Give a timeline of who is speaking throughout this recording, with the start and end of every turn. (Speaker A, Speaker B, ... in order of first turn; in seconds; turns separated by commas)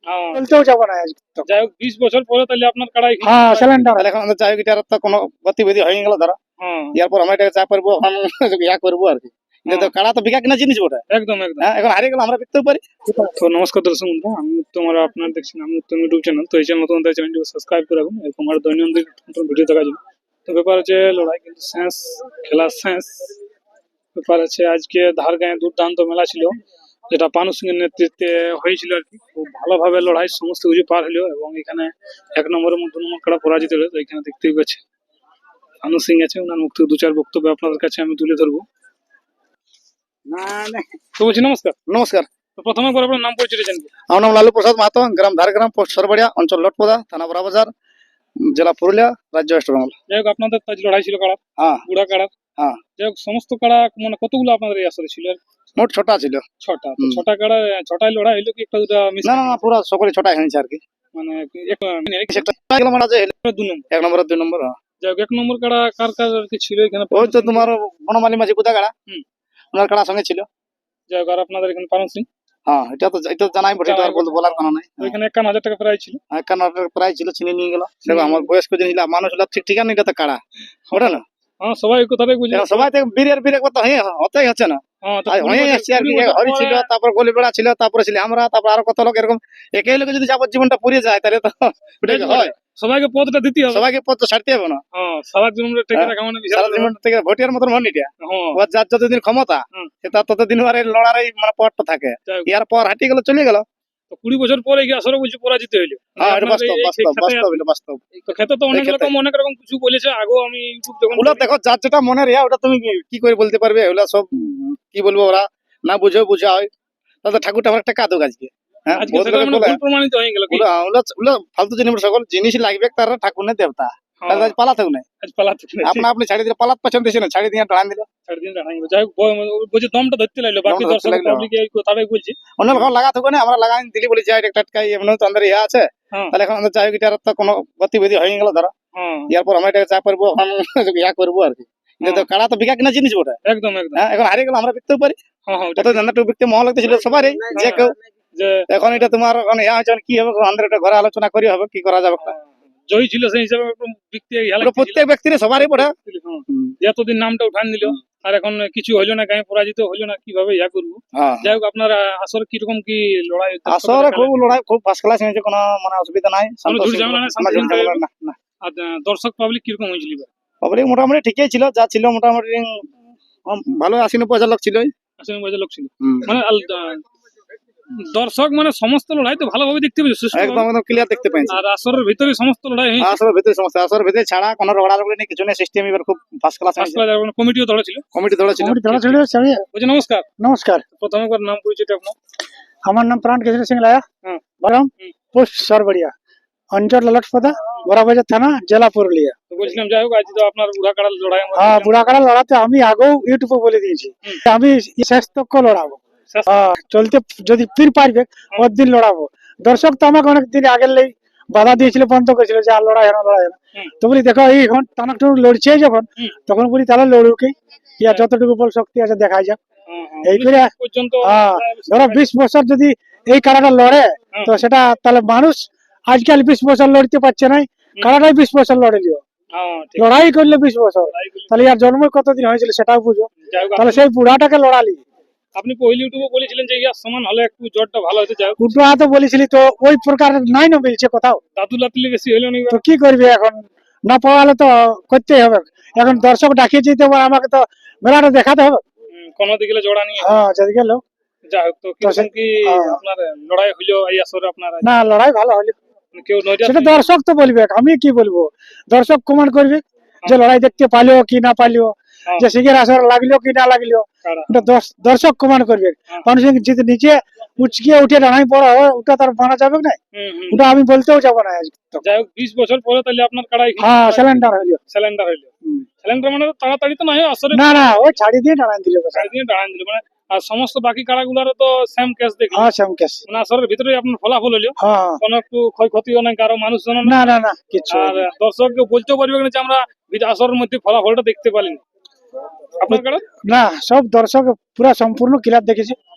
Speaker A: 0.1-0.4, Speaker B: 0.3-1.5, Speaker A: 1.5-3.9, Speaker B: 3.2-4.1, Speaker C: 4.0-6.4, Speaker A: 6.6-7.0, Speaker C: 7.0-11.0, Speaker A: 11.1-11.7, Speaker C: 11.6-12.8, Speaker B: 13.1-13.3, Speaker A: 13.4-23.3, Speaker A: 24.2-26.6, Speaker A: 27.1-34.8, Speaker A: 35.8-38.7, Speaker C: 40.3-40.9, Speaker A: 41.1-41.8, Speaker C: 41.9-42.3, Speaker A: 42.6-43.9, Speaker C: 44.1-47.7, Speaker C: 48.4-50.0, Speaker A: 50.1-52.3, Speaker C: 51.6-51.8, Speaker A: 53.0-55.4, Speaker C: 55.8-56.4, Speaker A: 56.6-59.6, Speaker C: 57.0-57.2, Speaker C: 59.2-60.8, Speaker A: 61.1-62.5, Speaker C: 62.3-63.3, Speaker A: 63.5-63.9, Speaker C: 63.9-64.8, Speaker A: 65.0-67.7, Speaker C: 67.1-68.9, Speaker C: 69.7-70.5, Speaker A: 71.1-72.3, Speaker C: 72.7-75.1, Speaker A: 73.8-76.2, Speaker C: 76.3-80.4, Speaker A: 78.0-78.5, Speaker A: 80.9-82.9, Speaker C: 80.9-81.2, Speaker C: 82.5-92.5, Speaker A: 85.0-86.9, Speaker A: 92.0-93.9, Speaker C: 93.7-94.8, Speaker A: 95.0-96.9, Speaker C: 95.9-103.7, Speaker A: 98.2-98.6, Speaker A: 104.1-107.6, Speaker C: 106.2-108.1, Speaker A: 108.3-111.5, Speaker C: 108.7-109.1, Speaker C: 111.2-116.7, Speaker C: 117.2-119.8, Speaker A: 118.9-120.7, Speaker C: 120.5-125.0, Speaker A: 124.2-124.6, Speaker A: 125.2-126.1, Speaker C: 125.8-128.1, Speaker A: 128.3-132.9, Speaker C: 130.7-131.5, Speaker C: 132.6-138.7, Speaker A: 139.0-139.3, Speaker C: 139.3-143.4, Speaker A: 142.0-142.3, Speaker A: 143.4-144.0, Speaker C: 144.0-145.2, Speaker A: 145.5-146.1, Speaker C: 145.8-147.9, Speaker A: 147.5-148.7, Speaker C: 148.7-152.3, Speaker A: 152.2-164.5, Speaker C: 154.6-155.9, Speaker C: 156.5-156.8, Speaker C: 161.1-161.5, Speaker C: 163.7-168.4, Speaker A: 166.7-168.0, Speaker A: 168.6-170.3, Speaker C: 170.6-172.8, Speaker C: 173.5-174.9, Speaker A: 175.2-177.1, Speaker C: 176.0-176.4, Speaker A: 178.0-180.7, Speaker C: 180.3-181.6, Speaker A: 181.5-183.2, Speaker C: 183.0-187.0, Speaker A: 186.8-188.1, Speaker C: 188.1-188.8, Speaker B: 188.6-189.6, Speaker A: 188.7-189.2, Speaker A: 189.7-190.3, Speaker B: 190.4-190.8, Speaker A: 191.0-192.2, Speaker B: 192.9-194.1, Speaker B: 194.6-196.1, Speaker B: 196.7-199.4, Speaker A: 199.5-202.2, Speaker B: 201.6-219.6, Speaker A: 219.9-222.3, Speaker B: 220.2-220.7, Speaker B: 221.2-229.2, Speaker A: 229.5-230.1, Speaker B: 230.0-235.0, Speaker A: 231.1-231.6, Speaker A: 233.4-234.1, Speaker A: 235.6-238.8, Speaker B: 238.6-241.4, Speaker A: 241.6-242.8, Speaker B: 242.7-248.8, Speaker A: 249.1-250.3, Speaker B: 250.2-251.0, Speaker A: 251.5-254.9, Speaker B: 252.0-253.0, Speaker B: 254.8-255.8, Speaker A: 256.1-257.1, Speaker B: 256.6-270.0, Speaker A: 264.2-264.7, Speaker A: 270.1-270.7, Speaker B: 270.5-272.0, Speaker A: 272.0-275.5, Speaker B: 273.8-274.8, Speaker A: 276.0-277.9, Speaker B: 277.5-279.3, Speaker A: 279.1-282.7, Speaker B: 282.5-283.2, Speaker A: 283.3-287.3, Speaker B: 284.8-285.2, Speaker B: 287.0-288.2, Speaker A: 287.9-291.8, Speaker A: 292.8-293.2, Speaker B: 292.9-296.0